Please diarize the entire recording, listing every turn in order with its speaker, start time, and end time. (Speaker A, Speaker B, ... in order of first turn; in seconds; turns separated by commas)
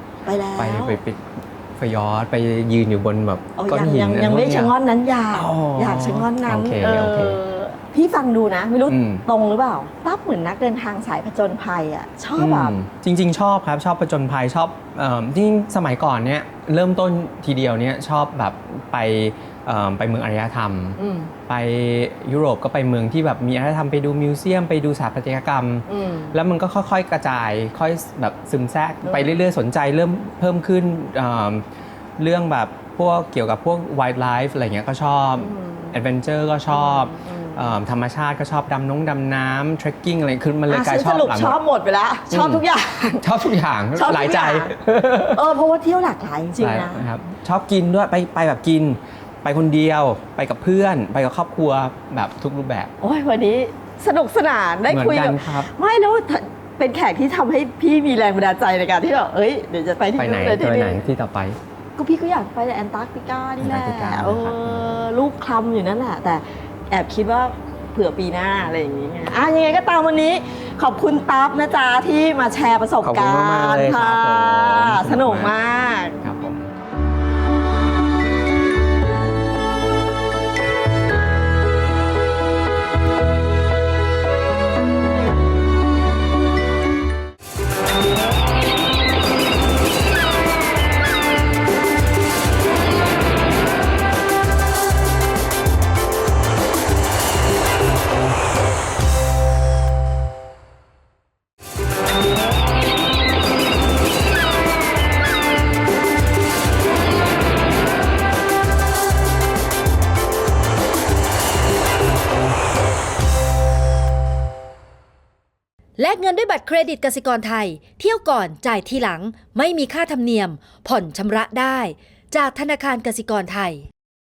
Speaker A: 0.2-1.0, Speaker B: 0.6-4.7, Speaker A: 3.5-12.7, Speaker B: 5.3-7.4, Speaker B: 8.9-9.2, Speaker B: 12.4-31.6, Speaker A: 21.0-21.3, Speaker A: 25.9-26.3, Speaker A: 29.0-29.3, Speaker B: 32.2-41.6, Speaker A: 35.4-35.9, Speaker A: 36.7-37.7, Speaker A: 40.7-43.3, Speaker B: 42.3-42.6, Speaker B: 43.2-45.4, Speaker A: 43.9-44.7, Speaker A: 45.3-47.0, Speaker B: 46.6-52.9, Speaker A: 53.0-61.0, Speaker B: 54.9-55.7, Speaker B: 60.2-61.6, Speaker A: 62.0-76.2, Speaker B: 63.6-64.9, Speaker B: 73.0-75.5, Speaker B: 76.2-76.7, Speaker C: 116.0-123.9